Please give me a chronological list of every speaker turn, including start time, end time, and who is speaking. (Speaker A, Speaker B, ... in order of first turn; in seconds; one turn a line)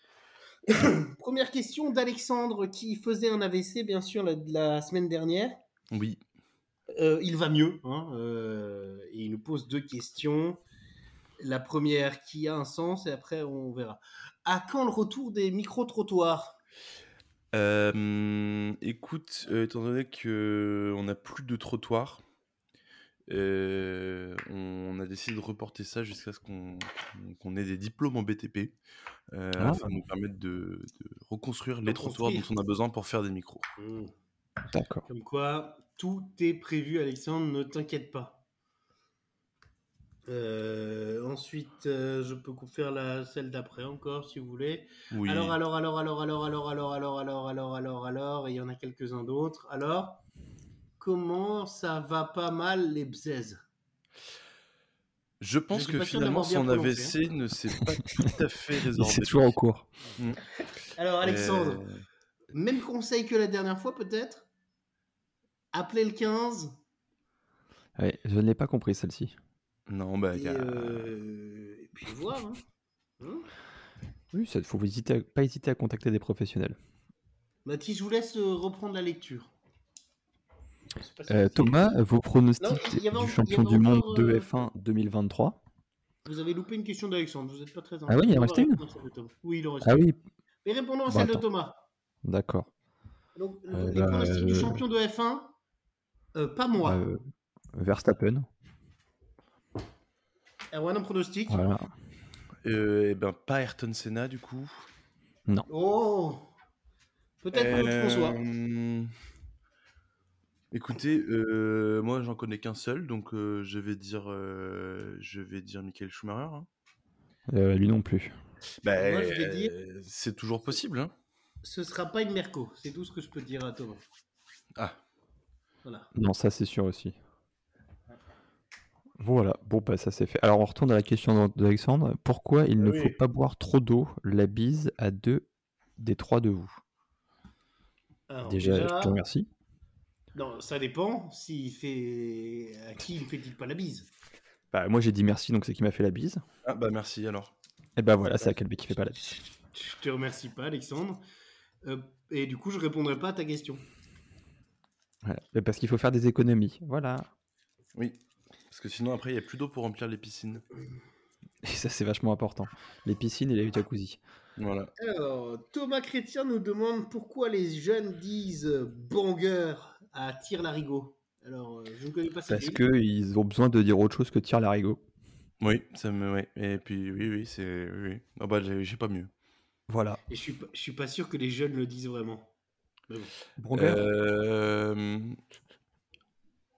Speaker A: 0.7-5.6
Speaker B: 5.9-6.2
Speaker A: 6.9-10.6
Speaker A: 11.4-16.6
Speaker B: 17.5-22.2
Speaker B: 23.3-28.8
Speaker B: 29.3-33.7
Speaker C: 29.6-29.9
Speaker A: 31.9-32.5
Speaker A: 33.8-34.1
Speaker C: 34.7-35.1
Speaker A: 35.1-38.4
Speaker A: 40.3-50.2
Speaker B: 45.1-45.6
Speaker A: 51.0-53.6
Speaker B: 55.4-59.6
Speaker A: 55.7-57.1
Speaker C: 58.9-59.9
Speaker A: 61.0-61.8
Speaker B: 61.2-62.0
Speaker A: 62.5-64.5
Speaker A: 65.7-66.8
Speaker C: 68.0-69.4
Speaker B: 69.9-71.1
Speaker A: 70.3-72.6
Speaker A: 73.2-73.5
Speaker C: 74.3-76.8
Speaker A: 77.7-79.5
Speaker A: 81.0-81.9
Speaker C: 81.3-85.6
Speaker A: 82.6-84.7
Speaker A: 86.2-90.1
Speaker C: 88.1-88.8
Speaker C: 89.8-90.2
Speaker A: 90.7-91.8
Speaker C: 91.1-91.4
Speaker C: 92.2-92.7
Speaker A: 93.4-95.5
Speaker C: 93.7-94.8
Speaker A: 96.3-97.0
Speaker C: 96.8-97.2
Speaker C: 97.7-98.5
Speaker A: 100.7-101.7
Speaker C: 101.5-101.9
Speaker B: 102.6-104.9
Speaker A: 105.7-106.5
Speaker A: 107.4-108.4
Speaker B: 107.5-109.1
Speaker B: 110.7-116.7
Speaker C: 117.5-118.3
Speaker B: 118.8-121.1
Speaker A: 119.0-119.7
Speaker A: 121.6-124.0
Speaker A: 125.8-126.1
Speaker C: 126.1-127.2
Speaker C: 129.2-135.5
Speaker A: 132.8-133.2
Speaker C: 136.0-136.8
Speaker A: 138.3-139.2
Speaker C: 138.5-139.5
Speaker A: 140.3-144.1
Speaker C: 144.7-146.4
Speaker B: 146.7-147.5
Speaker C: 148.0-149.3
Speaker A: 149.7-151.2
Speaker A: 151.8-153.8
Speaker C: 155.2-157.3
Speaker B: 158.7-160.6
Speaker C: 161.6-164.2
Speaker B: 164.6-164.9
Speaker A: 165.0-172.8
Speaker C: 172.5-175.0
Speaker B: 175.6-179.3
Speaker C: 179.9-180.2
Speaker A: 180.3-182.5
Speaker C: 183.6-184.0
Speaker B: 183.7-185.4